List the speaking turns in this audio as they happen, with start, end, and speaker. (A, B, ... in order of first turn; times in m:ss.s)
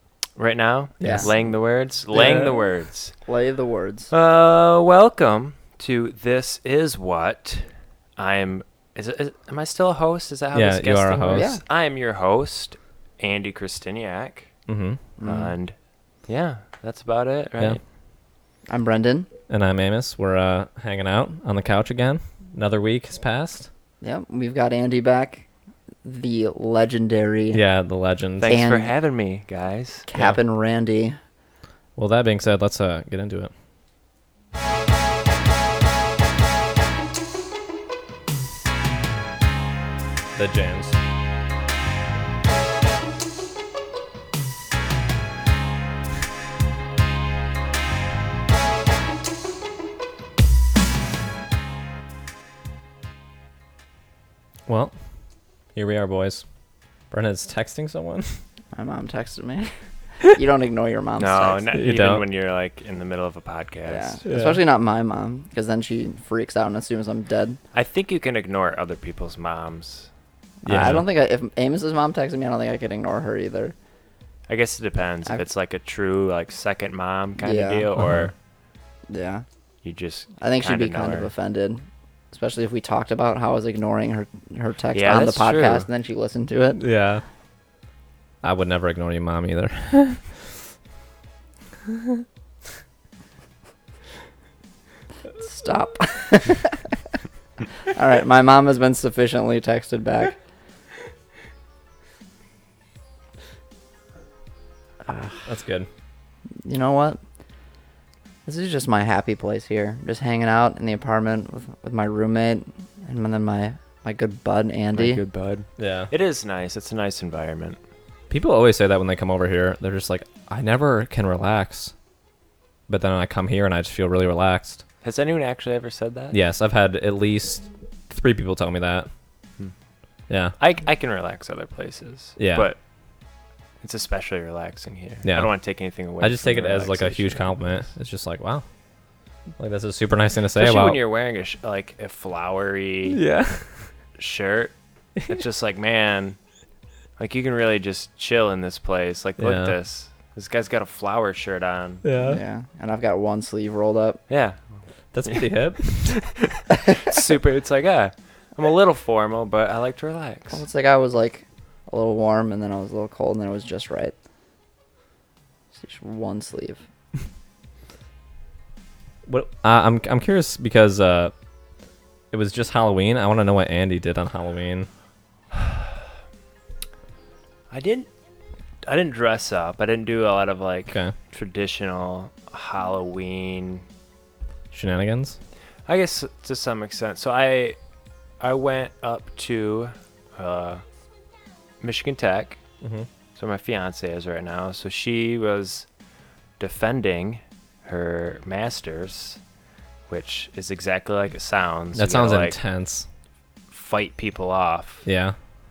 0:00.4-0:03.1 A
0:01.0-0:01.4 B
0:01.0-0:01.3 C
0:02.1-0:02.6 B
0:03.2-0:04.1 C
0:04.1-0:14.5 A
0:10.5-0:11.5 B
0:11.3-0:11.6 C
0:14.7-0:15.0 B
0:15.2-0:15.5 C
0:15.2-0:15.7 A
0:16.3-0:17.8 A
0:18.7-0:19.3 C
0:19.5-0:23.7 B
0:24.0-0:25.4 C
0:26.0-0:27.6 C
0:27.5-0:28.6 B
0:28.4-0:30.1 A
0:28.4-0:28.9 C
0:30.1-0:31.2 C
0:32.0-0:33.5 B
0:40.3-0:41.0 B
0:54.7-0:54.9 B
0:55.7-0:56.4 B
0:57.1-0:58.4 B
0:58.7-0:59.7 C
1:00.2-1:01.6 C
1:01.2-1:04.2 A
1:01.7-1:02.2 B
1:03.9-1:07.6 C
1:04.2-1:04.6 B
1:07.7-1:10.1 A
1:10.6-1:13.7 C
1:10.6-1:11.0 B
1:14.5-1:18.3 A
1:17.4-1:17.9 C
1:18.0-1:18.3 B
1:19.1-1:19.4 C
1:19.8-1:21.3 A
1:20.4-1:26.8 C
1:24.9-1:25.8 A
1:26.8-1:27.2 B
1:28.4-1:30.4 B
1:35.4-1:37.0 C
1:37.9-1:40.3 C
1:45.0-1:45.4 C
1:45.4-1:45.9 B
1:46.6-1:47.2 C
1:48.4-1:55.2 C
1:54.9-1:57.8 A
1:55.8-1:56.1 B
1:58.3-2:01.9 B
2:02.9-2:04.8 B
2:05.0-2:06.4 A
2:06.3-2:09.1 B
2:10.3-2:10.6 B
2:10.6-2:12.8 A
2:12.4-2:12.7 B
2:13.8-2:17.5 A
2:15.2-2:15.5 B
2:16.2-2:18.6 B
2:19.6-2:21.0 B
2:20.5-2:23.2 A
2:23.1-2:23.6 B
2:24.2-2:24.7 A
2:25.3-2:26.4 A
2:27.2-2:32.0 A
2:29.4-2:29.7 B
2:32.0-2:32.4 B
2:32.2-2:34.2 C
2:34.3-2:34.6 A
2:35.1-2:36.2 B
2:36.0-2:40.6 A
2:40.5-2:44.1 C
2:45.7-2:46.8 C
2:49.3-2:51.3 B
2:52.3-2:54.9 B
2:57.7-2:58.1 A
2:58.8-3:03.8 A
3:00.9-3:01.1 B
3:04.7-3:05.4 B
3:05.9-3:07.8 A
3:08.4-3:10.8 A
3:11.8-3:12.6 A
3:12.8-3:13.1 B
3:13.4-3:15.9 A
3:16.6-3:19.4 A
3:20.1-3:22.6 A
3:21.9-3:23.1 B
3:23.7-3:25.0 A
3:25.0-3:25.3 B